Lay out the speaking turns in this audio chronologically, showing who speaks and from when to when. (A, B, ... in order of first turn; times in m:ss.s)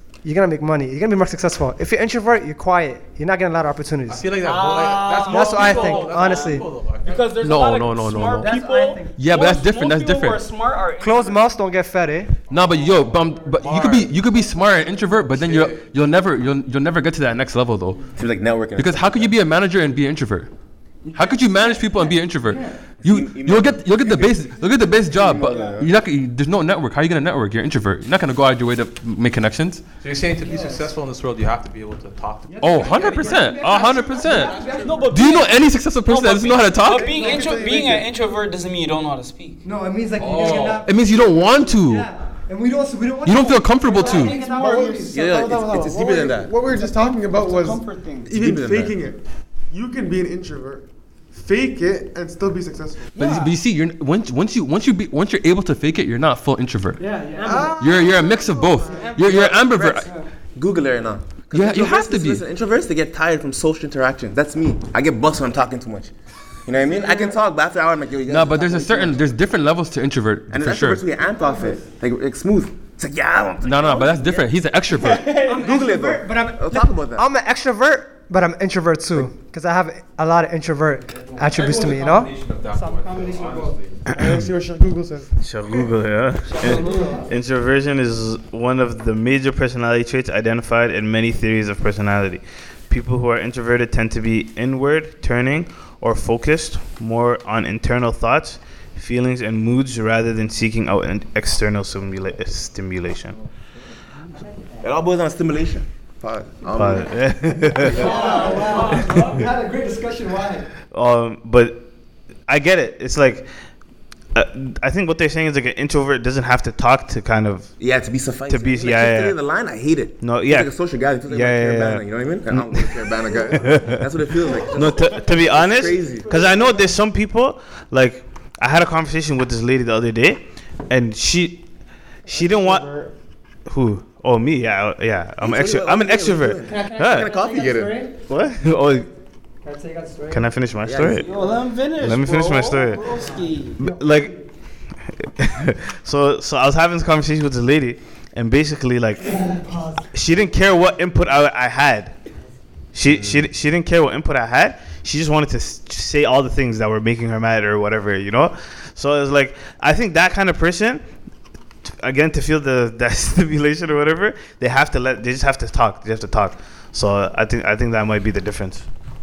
0:00.2-0:04.2 A
0:04.1-0:07.3 B
0:04.4-0:11.4 C
0:05.2-0:06.6 A
0:07.4-0:08.6 D
0:08.4-0:09.1 A
0:09.1-0:10.4 D
0:11.0-0:13.7 A
0:12.5-0:18.1 D
0:12.5-0:12.8 B
0:13.6-0:14.2 B
0:15.2-0:15.9 B
0:18.1-0:19.3 E
0:18.7-0:20.5 D
0:21.0-0:22.8 A
0:21.1-0:29.8 D
0:23.0-0:24.6 E
0:25.1-0:25.7 E
0:25.2-0:25.8 A
0:25.2-0:25.7 F
0:30.0-0:34.9 B
0:30.4-0:30.9 A
0:32.5-0:35.2 A
0:32.6-0:37.2 D
0:34.3-0:39.6 C
0:36.9-0:38.1 F
0:37.1-0:37.5 A
0:39.6-0:45.2 A
0:40.2-0:40.8 B
0:40.8-0:42.1 D
0:43.2-0:44.4 D
0:44.0-0:53.2 F
0:45.1-0:46.5 E
0:46.7-0:48.3 C
0:48.3-0:49.0 E
0:53.2-0:57.0 D
0:53.2-0:53.5 A
0:53.2-0:53.5 C
0:57.0-0:58.1 A
0:57.4-0:59.2 F
0:57.7-1:00.1 D
0:58.8-1:00.2 A
0:59.2-1:06.1 E
1:01.5-1:02.4 D
1:06.6-1:09.3 E
1:06.8-1:07.3 A
1:08.3-1:11.0 D
1:10.5-1:14.5 E
1:11.3-1:11.8 A
1:13.6-1:15.3 D
1:14.9-1:15.9 C
1:15.4-1:23.8 A
1:15.5-1:17.2 E
1:21.1-1:24.0 B
1:24.1-1:25.3 F
1:24.1-1:24.4 G
1:25.4-1:43.4 G
1:26.5-1:27.2 C
1:26.6-1:27.2 A
1:44.8-1:47.2 E
1:46.7-1:48.2 G
1:47.8-1:50.7 A
1:48.3-1:48.8 C
1:50.9-1:51.9 G
1:52.5-1:53.5 G
1:54.3-1:57.7 G
1:57.8-2:06.4 E
1:58.5-1:59.4 G
2:00.2-2:04.0 G
2:04.6-2:11.6 G
2:12.2-2:12.9 G
2:12.3-2:13.1 F
2:13.7-2:17.3 G
2:15.4-2:18.0 E
2:16.7-2:18.2 A
2:18.3-2:19.1 G
2:19.6-2:20.5 A
2:20.3-2:21.3 G
2:20.8-2:21.3 E
2:21.2-2:23.8 C
2:22.0-2:23.0 G
2:23.1-2:24.4 A
2:23.8-2:24.3 G
2:25.2-2:29.5 G
2:29.3-2:30.0 A
2:30.1-2:32.1 G
2:32.9-2:41.0 G
2:33.1-2:33.4 E
2:41.8-2:48.9 G